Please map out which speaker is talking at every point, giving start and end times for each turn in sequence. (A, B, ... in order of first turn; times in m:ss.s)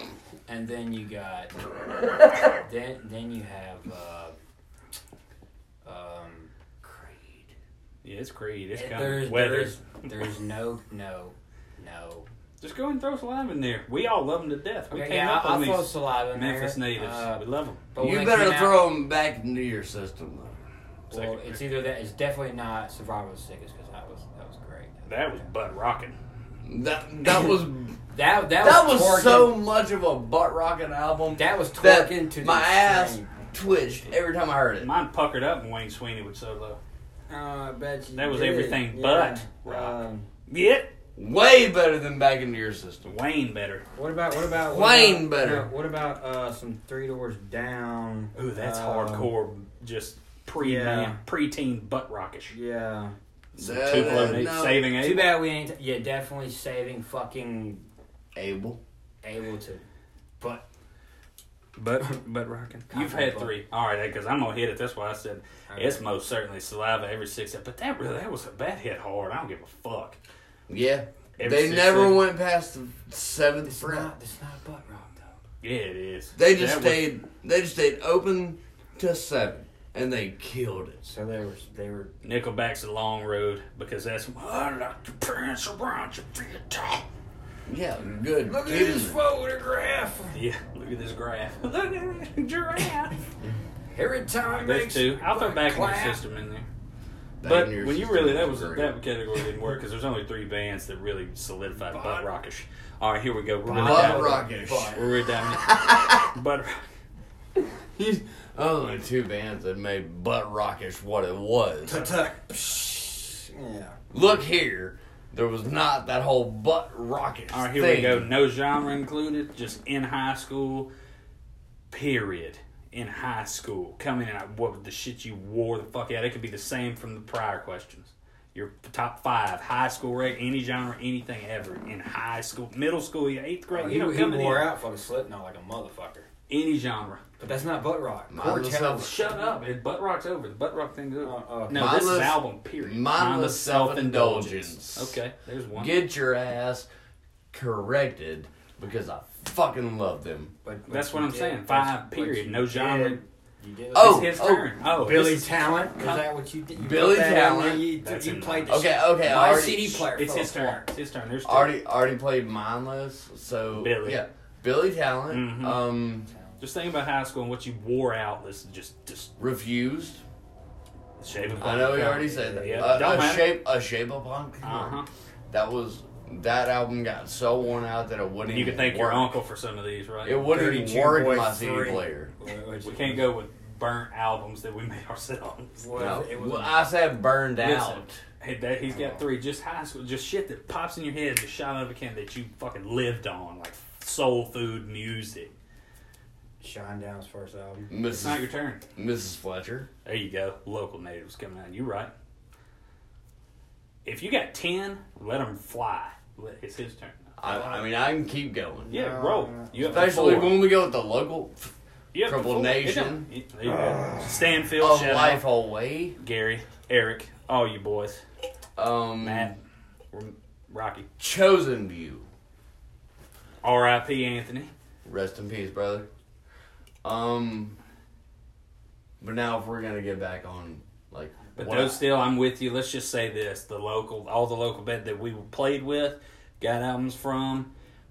0:00.5-0:01.6 A
0:02.4-0:04.3 A
0:05.8-0:07.4 A
0:08.0-0:09.8 B
0:08.8-0:12.2 A
0:12.6-0:17.8 B
0:14.9-0:18.8 A
0:18.0-0:20.6 C
0:21.1-0:21.6 B
0:21.1-0:25.4 A
0:25.0-0:26.2 B
0:26.6-0:34.9 C
0:28.1-0:29.6 A
0:31.3-0:33.4 A
0:34.8-0:36.8 B
0:37.3-0:40.3 A
0:38.1-0:40.9 B
0:41.2-0:43.1 C
0:43.0-0:43.8 B
0:43.9-0:49.3 A
0:44.6-0:45.7 C
0:48.3-0:52.6 B
0:50.6-0:51.2 A
0:52.5-0:53.1 A
0:53.5-0:55.4 B
0:53.6-0:54.9 C
0:53.9-0:57.8 A
0:58.3-0:58.8 C
0:59.2-0:59.8 A
1:00.4-1:00.6 A
1:01.8-1:10.2 B
1:02.8-1:03.6 A
1:05.7-1:06.0 A
1:10.7-1:14.1 C
1:11.4-1:12.2 B
1:13.6-1:15.4 A
1:15.6-1:17.1 B
1:16.4-1:21.0 C
1:21.0-1:22.1 A
1:22.2-1:27.0 B
1:27.7-1:29.2 C
1:28.4-1:30.4 A
1:30.3-1:33.2 B
1:33.9-1:36.2 A
1:34.4-1:36.7 B
1:37.4-1:39.0 C
1:37.4-1:46.8 B
1:41.8-1:42.3 A
1:43.6-1:45.2 A
1:43.7-1:46.3 C
1:47.5-1:52.2 C
1:51.8-1:54.0 A
1:54.1-1:58.3 C
1:57.5-2:00.9 B
2:01.9-2:14.7 B
2:13.7-2:16.3 A
2:16.5-2:17.2 B
2:17.4-2:19.3 A
2:18.3-2:19.1 C
2:18.8-2:26.0 B
2:21.2-2:21.9 A
2:21.7-2:25.2 C
2:25.7-2:26.9 C
2:27.5-2:30.5 C
2:30.6-2:40.9 A
2:30.9-2:33.2 B
2:33.9-2:34.7 C
2:33.9-2:36.3 B
2:36.7-2:37.9 C
2:38.0-2:41.8 B
2:38.7-2:40.1 C
2:41.4-2:46.3 C
2:43.7-2:44.2 B
2:45.3-2:45.9 B
2:46.3-2:46.6 A
2:46.6-2:49.3 B
2:49.4-2:50.2 C
2:51.2-2:53.6 B
2:51.3-2:53.4 A
2:51.6-2:55.0 C
2:54.6-2:55.1 B
2:55.5-2:59.3 C
2:58.4-3:00.5 B
3:00.2-3:02.3 C
3:00.4-3:03.3 A
3:02.8-3:05.9 B
3:05.8-3:06.8 A
3:05.9-3:08.2 C
3:07.6-3:15.5 B
3:08.8-3:09.3 A
3:16.6-3:17.9 A
3:17.9-3:19.9 C
3:18.1-3:18.8 B
3:20.0-3:22.1 B
3:24.0-3:27.3 B
3:27.4-3:28.9 C
3:27.4-3:27.9 A
3:28.8-3:30.4 A
3:28.9-3:30.6 B
3:29.8-3:33.3 C
3:32.1-3:35.4 B
3:33.9-3:34.2 C
3:34.8-3:36.2 C
3:36.2-3:38.2 B
3:38.8-3:39.5 C
3:39.2-3:41.1 B
3:41.2-3:42.3 C
3:43.6-3:44.7 B
3:45.0-3:46.1 C
3:47.0-3:47.8 C
3:49.2-3:52.0 C
3:51.6-3:57.7 B